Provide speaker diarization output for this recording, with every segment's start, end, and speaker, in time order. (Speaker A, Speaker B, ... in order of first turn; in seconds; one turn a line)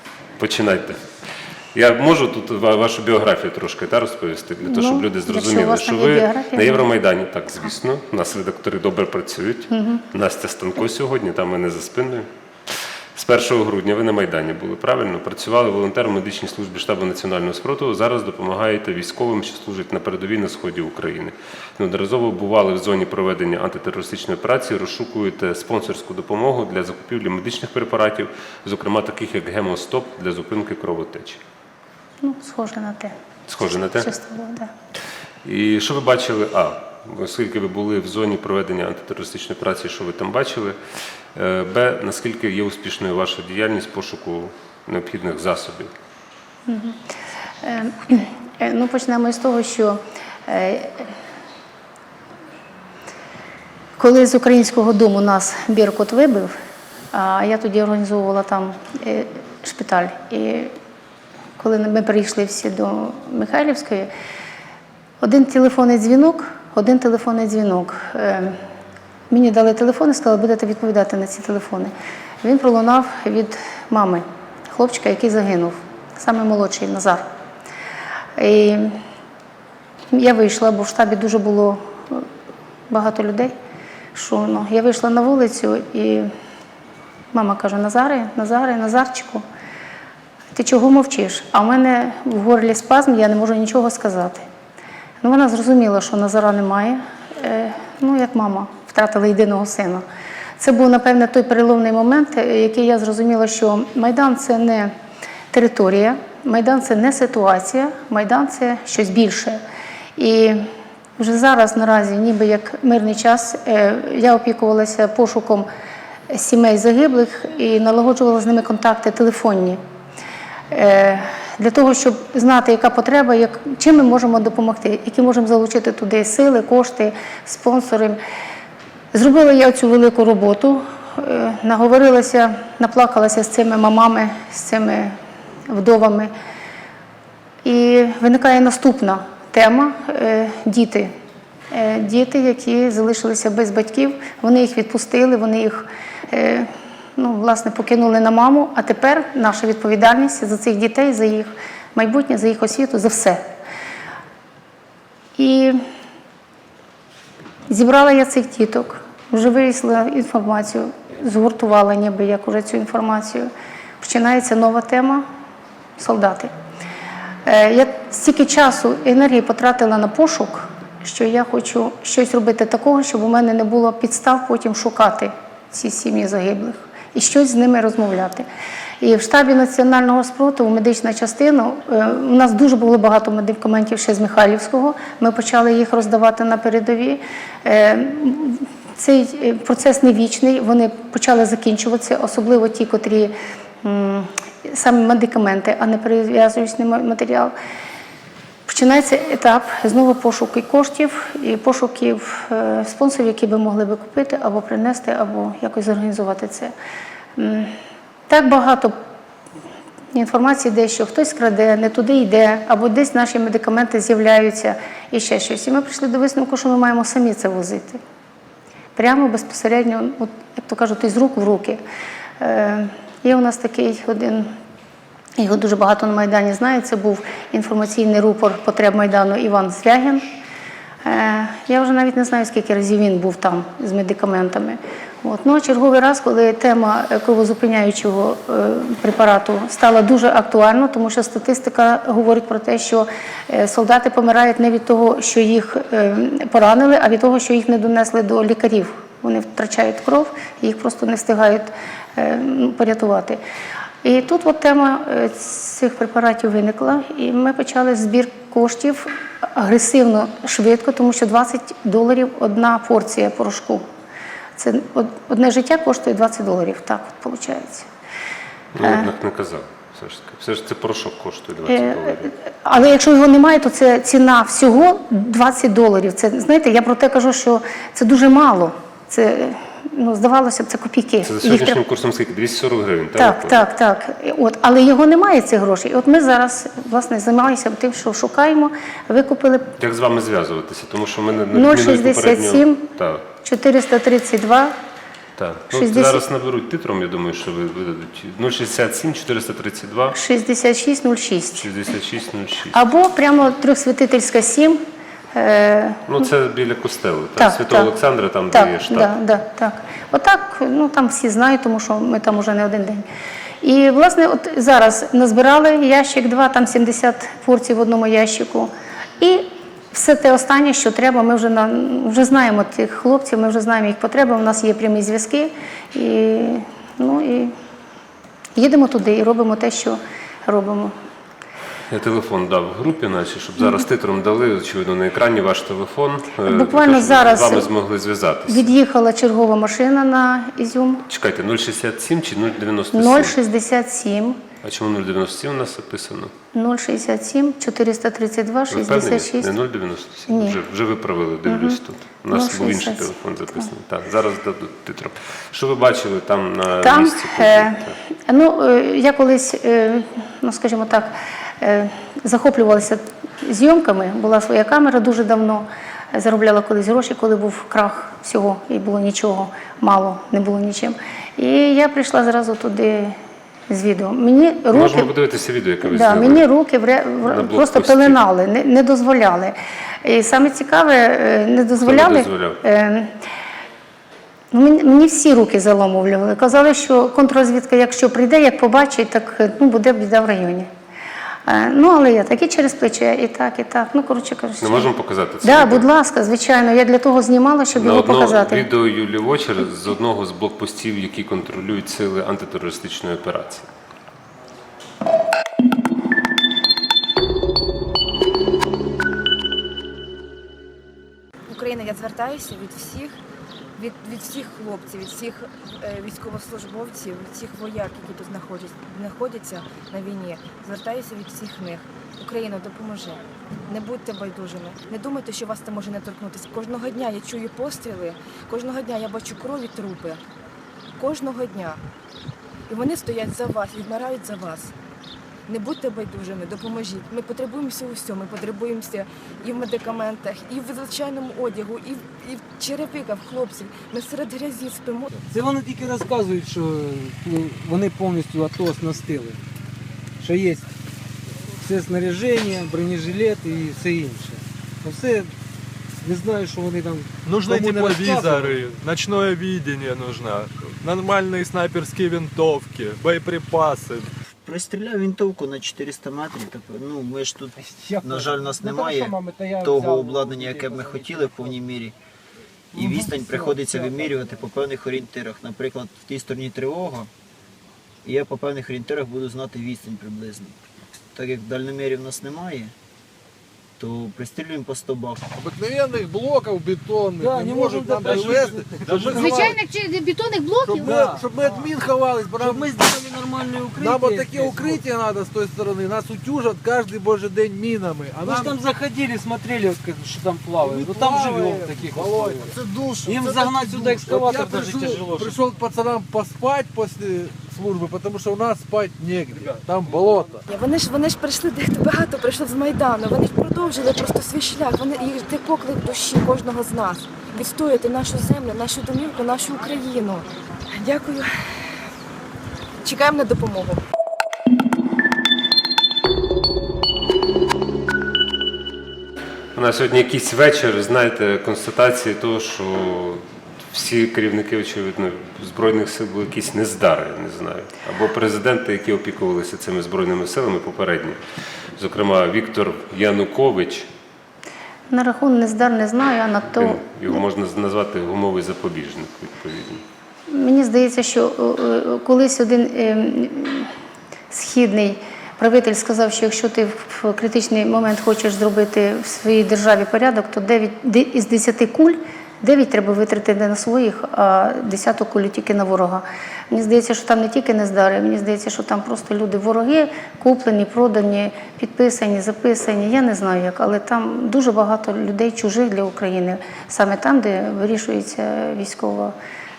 Speaker A: 0.4-1.0
Speaker A: 1.8-12.3
Speaker B: 4.7-6.9
Speaker B: 9.7-10.0
Speaker A: 13.2-31.4
Speaker B: 32.2-33.1
Speaker A: 33.5-34.1
Speaker B: 33.8-34.7
Speaker A: 35.5-40.8
Speaker A: 41.4-45.9
Speaker B: 46.7-47.0
Speaker B: 47.6-51.1
Speaker B: 54.0-56.5
Speaker B: 57.1-60.7
Speaker B: 61.6-64.1
Speaker B: 65.2-68.6
Speaker B: 69.3-77.2
Speaker B: 78.4-79.0
Speaker B: 80.1-82.3
Speaker B: 82.9-83.5
Speaker B: 84.1-86.3
Speaker B: 87.3-89.4
Speaker B: 90.5-94.4
Speaker B: 95.2-100.0
Speaker B: 100.6-104.9
Speaker B: 105.5-109.6
Speaker B: 110.2-110.6
Speaker B: 111.2-115.7
Speaker B: 116.3-119.8
Speaker B: 120.7-128.2
Speaker B: 129.1-135.2
Speaker B: 135.7-136.3
Speaker B: 137.6-141.1
Speaker B: 141.7-153.4
Speaker B: 155.4-155.8
Speaker B: 157.7-163.5
Speaker B: 164.0-165.2
Speaker B: 166.0-166.5
Speaker B: 167.4-178.5
Speaker B: 179.0-197.5
Speaker B: 198.7-206.7
Speaker B: 207.4-207.7
Speaker B: 208.3-208.9
Speaker B: 210.1-218.0
Speaker B: 219.0-221.8
Speaker B: 222.4-224.5
Speaker B: 225.4-230.3
Speaker B: 231.0-253.4
Speaker B: 254.0-263.8
Speaker B: 264.6-267.9
Speaker A: 268.8-272.3
Speaker B: 268.8-269.1
Speaker B: 271.7-281.8
Speaker A: 281.2-283.6
Speaker B: 283.2-289.7
Speaker A: 289.8-293.2
Speaker B: 291.5-292.9
Speaker B: 293.4-294.7
Speaker A: 295.4-300.2
Speaker B: 295.7-296.2
Speaker B: 300.1-301.7
Speaker A: 301.6-302.8
Speaker B: 302.7-304.8
Speaker B: 305.4-306.1
Speaker A: 306.1-309.1
Speaker B: 307.4-307.9
Speaker B: 308.5-313.0
Speaker B: 313.6-327.5
Speaker B: 328.6-330.9
Speaker A: 331.9-338.7
Speaker B: 336.5-337.7
Speaker B: 338.5-341.1
Speaker A: 341.1-343.4
Speaker B: 342.9-344.4
Speaker A: 344.6-346.3
Speaker B: 346.5-349.6
Speaker A: 348.7-357.9
Speaker B: 350.3-350.6
Speaker B: 351.5-351.8
Speaker B: 352.3-353.7
Speaker B: 356.8-373.1
Speaker B: 373.7-375.1
Speaker A: 374.7-376.4
Speaker B: 375.9-383.1
Speaker A: 377.2-378.2
Speaker A: 381.8-382.6
Speaker B: 384.5-390.7
Speaker B: 391.4-394.9
Speaker A: 394.6-395.9
Speaker B: 395.4-398.7
Speaker A: 397.8-403.7
Speaker C: 411.5-413.2
Speaker C: 413.8-430.2
Speaker C: 431.0-431.8
Speaker C: 432.7-434.7
Speaker C: 435.5-445.1
Speaker D: 445.3-449.4
Speaker D: 450.2-450.7
Speaker D: 451.6-455.4
Speaker D: 456.0-458.7
Speaker E: 457.2-464.1
Speaker F: 464.4-471.9
Speaker D: 467.8-471.4
Speaker F: 472.7-477.1
Speaker D: 472.8-474.1
Speaker F: 478.0-480.6
Speaker F: 481.1-482.7
Speaker F: 483.8-485.2
Speaker G: 485.4-489.6
Speaker D: 487.2-489.6
Speaker B: 489.2-490.8
Speaker G: 490.6-492.9
Speaker D: 490.7-491.4
Speaker D: 492.4-494.8
Speaker G: 493.8-498.6
Speaker D: 498.2-505.4
Speaker G: 500.6-510.4
Speaker C: 510.5-521.3
Speaker C: 522.8-523.8
Speaker A: 529.5-541.2
Speaker A: 541.8-543.9
Speaker B: 544.9-547.0
Speaker A: 546.5-549.8
Speaker B: 550.3-553.7
Speaker B: 554.3-579.1